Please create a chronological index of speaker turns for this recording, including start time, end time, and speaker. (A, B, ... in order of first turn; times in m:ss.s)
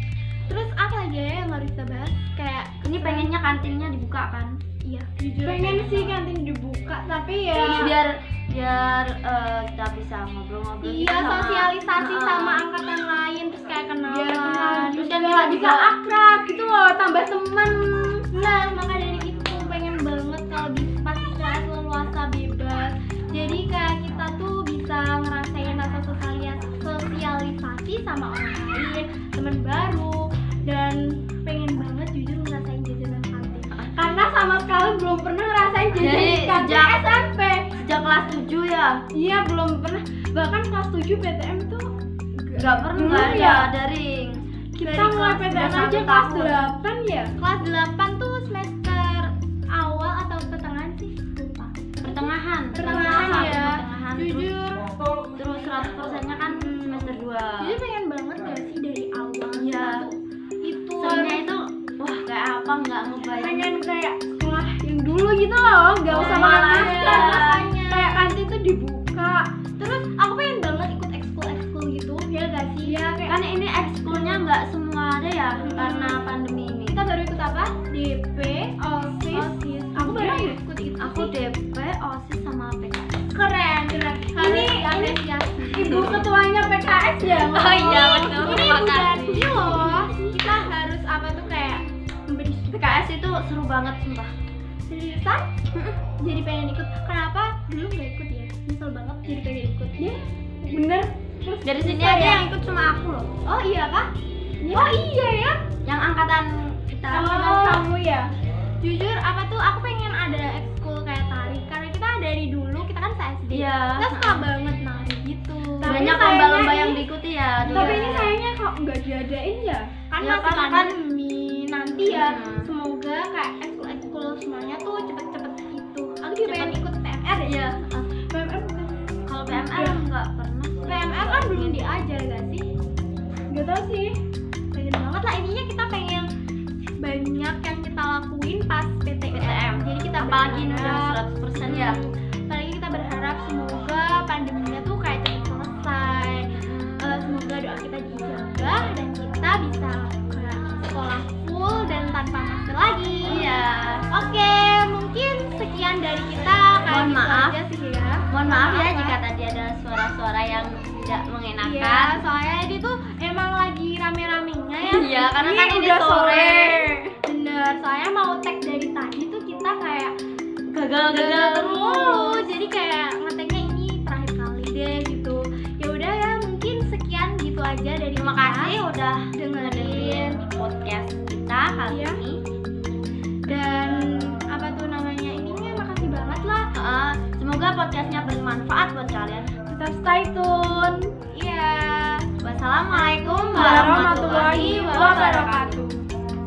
0:00.5-0:03.3 A
0:02.8-0:04.6 B
0:04.8-0:06.1 A
0:05.4-0:07.9 C
0:07.5-0:12.6 B
0:10.8-0:15.1 A
0:14.1-0:18.3 C
0:15.0-0:15.9 B
0:18.3-0:33.7 A
0:33.9-0:37.7 C
0:36.0-0:37.2 B
0:37.8-0:39.0 B
0:39.1-0:41.9 C
0:42.4-0:43.7 C
0:42.6-0:44.4 B
0:44.8-0:47.3 C
0:44.8-0:46.5 A
0:45.5-0:46.6 B
0:47.4-0:54.9 A
0:52.0-0:54.5 B
0:55.4-0:57.8 B
0:56.6-1:01.4 A
0:59.5-1:00.1 B
1:01.0-1:03.7 B
1:03.4-1:09.5 C
1:06.1-1:07.7 B
1:06.1-1:08.3 A
1:09.8-1:13.0 A
1:12.8-1:13.4 C
1:13.3-1:17.0 B
1:14.1-1:14.4 C
1:15.7-1:16.3 A
1:16.9-1:21.3 A
1:19.0-1:20.6 C
1:21.0-1:23.1 B
1:23.3-1:25.8 A
1:24.1-1:25.2 C
1:25.7-1:28.9 C
1:25.8-1:26.2 B
1:27.2-1:29.8 B
1:28.4-1:33.0 A
1:29.5-1:30.3 C
1:32.7-1:34.3 B
1:34.9-1:35.5 A
1:36.2-1:40.1 A
1:40.0-1:42.5 C
1:41.6-1:43.3 B
1:43.4-1:44.1 A
1:44.6-1:45.6 C
1:44.7-1:45.2 A
1:45.8-1:47.8 B
1:47.1-1:48.3 C
1:47.3-1:47.8 A
1:48.8-1:56.1 A
1:53.5-1:54.4 B
1:55.8-1:57.0 C
1:55.8-1:58.4 B
1:57.7-1:59.9 C
1:57.7-1:58.2 A
2:00.1-2:07.6 A
2:00.2-2:01.0 B
2:02.1-2:02.7 B
2:06.4-2:06.8 B
2:07.3-2:08.1 B
2:08.2-2:08.9 C
2:09.3-2:11.9 B
2:09.5-2:10.0 C
2:10.9-2:12.7 A
2:13.5-2:14.2 C
2:14.7-2:16.3 A
2:17.0-2:39.2 A
2:19.3-2:22.0 B
2:26.7-2:27.2 B
2:33.3-2:34.1 B
2:36.9-2:37.6 B
2:38.3-2:42.2 B
2:41.6-2:45.4 A
2:44.8-2:46.9 B
2:45.4-2:47.2 C
2:47.2-2:50.1 A
2:50.7-2:52.6 B
2:51.1-3:00.4 A
2:58.2-3:02.4 B
3:01.9-3:02.2 A
3:03.5-3:06.7 A
3:06.7-3:09.5 B
3:09.7-3:11.1 C
3:11.3-3:12.3 A
3:12.4-3:15.8 B
3:12.9-3:15.8 A
3:13.5-3:16.0 C